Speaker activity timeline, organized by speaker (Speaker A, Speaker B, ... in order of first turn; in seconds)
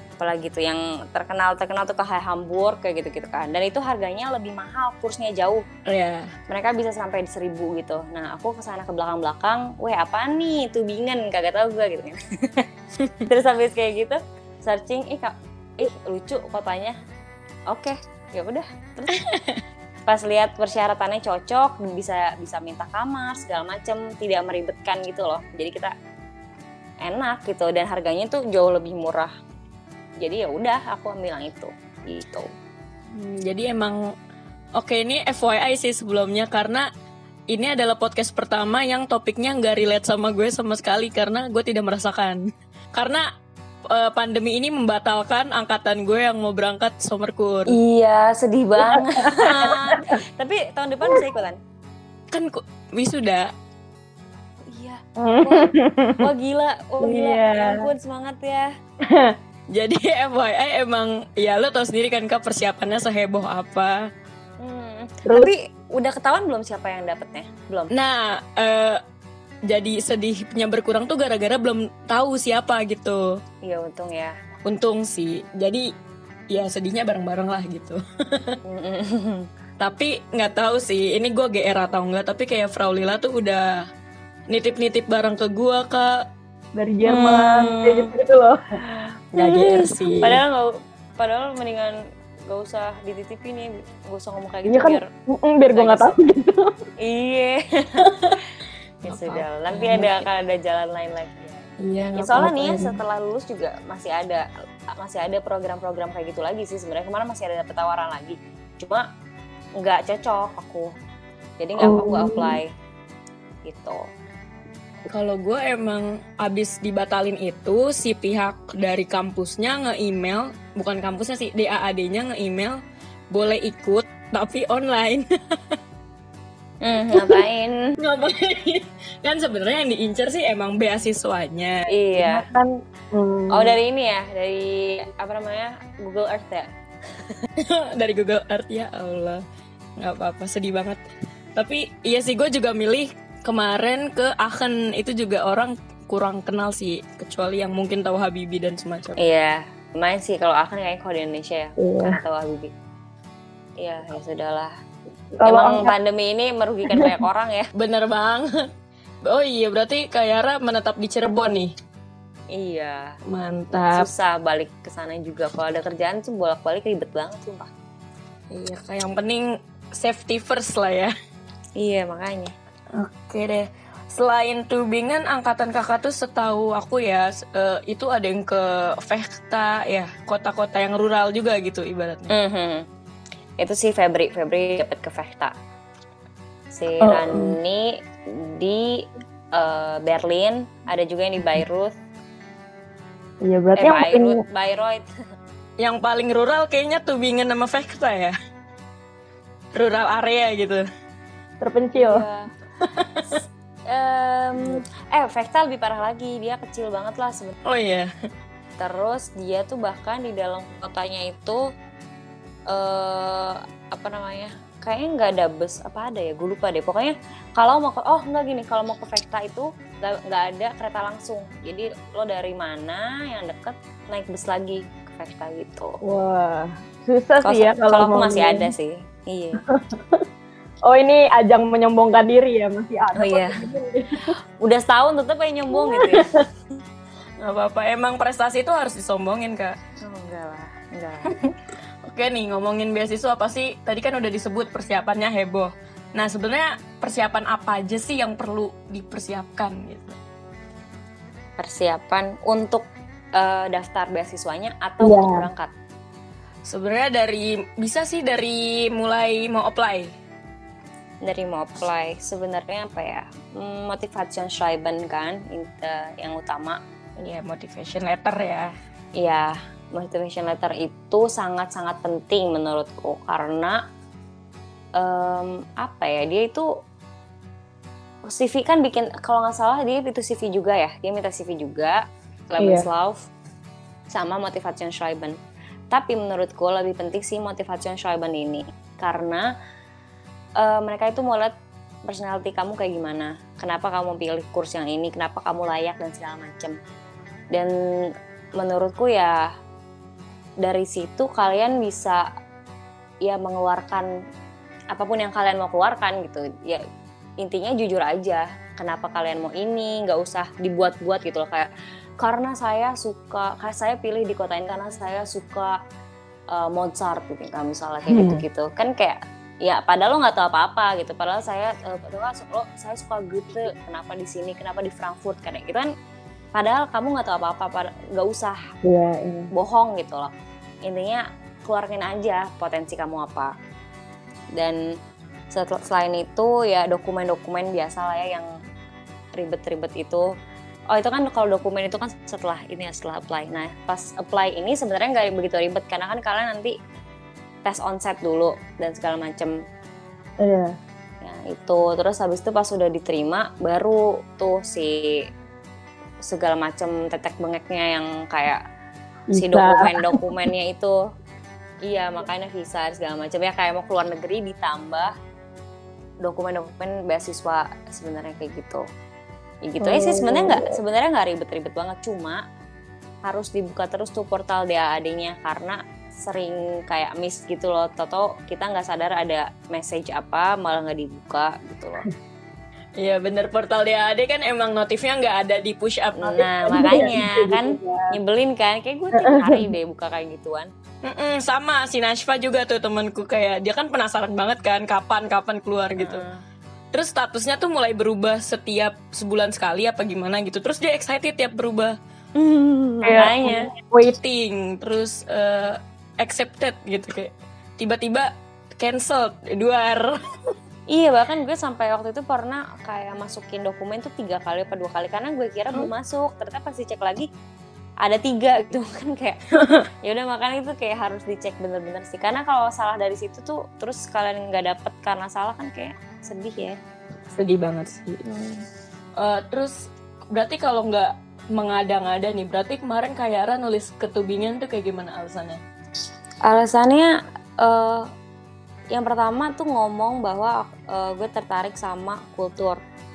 Speaker A: 0.2-5.6, 6.5-12.7, 13.3-17.0, 17.7-19.2, 20.1-25.9, 27.0-29.3, 30.2-32.5, 47.7-51.6, 54.7-55.7, 56.2-58.7, 64.6-67.9, 73.7-74.3, 78.7-79.5, 88.8-95.1, 95.8-96.2, 97.0-98.1, 99.1-109.0, 109.8-110.9, 111.6-112.7, 113.7-114.0, 126.8-128.0, 131.9-132.5, 133.5-136.7, 149.2-152.7, 153.8-154.7, 155.4-157.7, 162.5-163.2, 163.9-167.7, 171.8-172.5, 182.3-182.8, 183.6-185.5, 186.7-191.9, 193.8-195.1, 201.9-202.5, 203.3-207.6, 208.8-211.6, 212.7-226.0, 227.4-229.6, 233.2-233.6, 234.6-236.3, 240.1-241.3, 251.6-255.7, 261.2-266.8, 269.2-273.8, 275.0-276.7, 278.3-282.0, 282.5-283.2, 284.1-285.4, 285.9-289.5, 290.6-291.5, 292.1-296.8, 298.6-299.4, 300.6-302.2, 303.2-304.1, 304.9-306.8, 307.4-315.8, 316.5-325.9, 326.6-328.6, 329.5-330.3, 330.9-333.5, 335.5-338.5, 339.3-340.3, 340.9-346.8, 347.7-349.6, 351.2-355.2, 356.2-358.6, 359.4-361.0, 361.9-365.1, 366.2-368.8, 369.7-372.4, 373.2-382.1, 386.2-390.7, 396.0-396.4, 402.4-403.7, 410.9-417.3, 418.0-419.4, 420.0-426.8, 428.3-428.6, 436.5-438.1, 438.9-442.8
Speaker B: 5.9-6.3, 19.1-19.6, 33.1-34.1, 34.8-36.9, 37.5-42.4, 42.9-43.2, 43.9-47.8, 49.2-50.1, 52.3-53.5, 59.7-64.0, 67.9-69.0, 69.7-73.4, 74.7-75.9, 76.5-78.6, 79.8-83.7, 84.5-86.1, 87.0-88.5, 89.3-90.4, 98.1-98.3, 99.0-100.3, 101.8-103.0, 111.8-112.5, 115.1-122.8, 123.3-125.8, 127.1-127.4, 128.0-133.7, 137.6-139.4, 140.0-141.0, 141.6-149.2, 157.8-158.5, 159.2-161.7, 163.3-164.1, 168.5-169.4, 170.0-171.1, 172.9-182.3, 187.0-187.6, 195.8-198.3, 199.8-200.8, 202.8-203.2, 207.7-208.1, 231.3-231.9, 237.4-239.8, 242.1-250.2, 256.7-260.1, 267.2-268.7, 282.6-282.9, 318.1-318.4, 328.8-329.5, 369.8-370.7, 383.0-387.6, 391.1-396.3, 396.9-401.9, 403.1-410.2, 427.3-428.2, 429.2-429.8, 430.3-435.6
Speaker C: 57.1-57.7, 86.8-88.5, 94.7-95.0, 95.5-96.6, 155.5-155.9, 193.4-194.4, 201.7-202.2, 226.1-228.5, 230.9-234.0, 359.4-359.8, 386.7-387.6